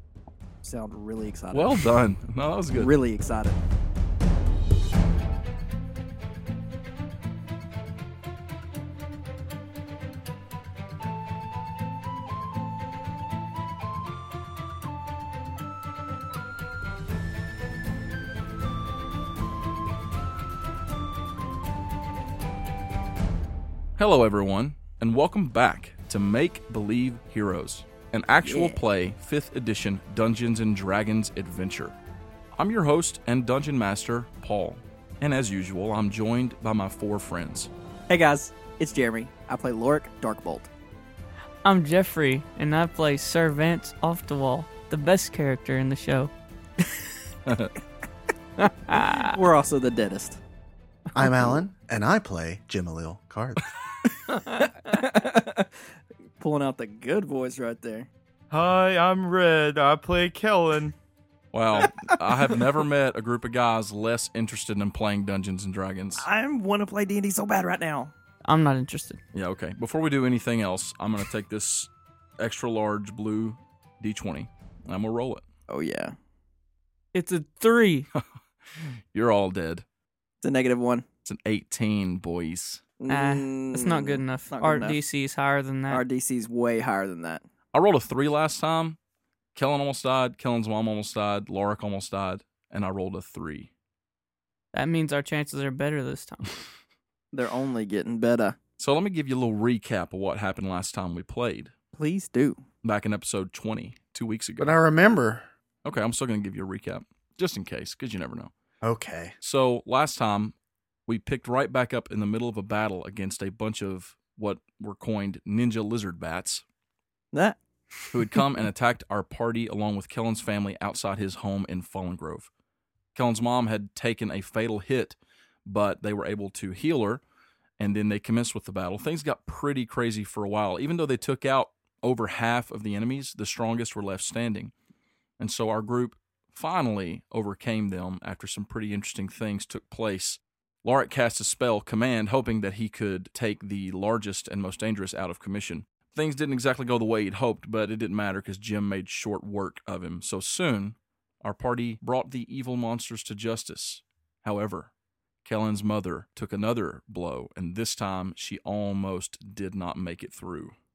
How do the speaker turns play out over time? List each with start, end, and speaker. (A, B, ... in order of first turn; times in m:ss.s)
0:00.6-0:01.8 A
0:01.5-0:02.9 B
0:02.7-0:03.6 A
0:24.0-0:31.9 B
0:28.4-0:28.8 A
0:32.6-0:37.7 B
0:38.1-0:40.7 A
0:41.6-0:46.3 C
0:47.4-0:47.7 B
0:48.6-0:49.3 C
0:48.9-0:50.4 A
0:51.1-0:53.6 D
0:51.2-0:51.6 A
0:54.2-0:55.8 A
0:56.4-0:58.1 A
0:58.5-1:00.9 E
1:01.5-1:06.2 B
1:01.8-1:02.2 A
1:06.2-1:08.1 A
1:08.4-1:09.2 C
1:09.3-1:15.4 B
1:15.7-1:16.1 A
1:17.1-1:18.1 C
1:18.8-1:19.8 B
1:20.4-1:21.0 A
1:21.2-1:22.8 B
1:23.0-1:25.0 A
1:23.1-1:26.0 C
1:25.9-1:27.4 A
1:27.7-1:29.0 B
1:29.5-1:33.7 B
1:34.7-1:36.6 C
1:37.3-1:38.6 A
1:38.8-1:41.7 B
1:41.9-1:42.6 A
1:42.8-1:44.8 B
1:44.6-1:45.5 D
1:45.8-1:48.5 B
1:48.8-1:49.3 D
1:49.4-1:50.5 B
1:51.0-1:56.6 B
1:57.3-1:57.6 A
1:58.1-2:02.5 B
2:03.1-2:07.2 B
2:07.8-2:14.7 B
2:15.4-2:34.9 B
2:35.4-2:40.7 B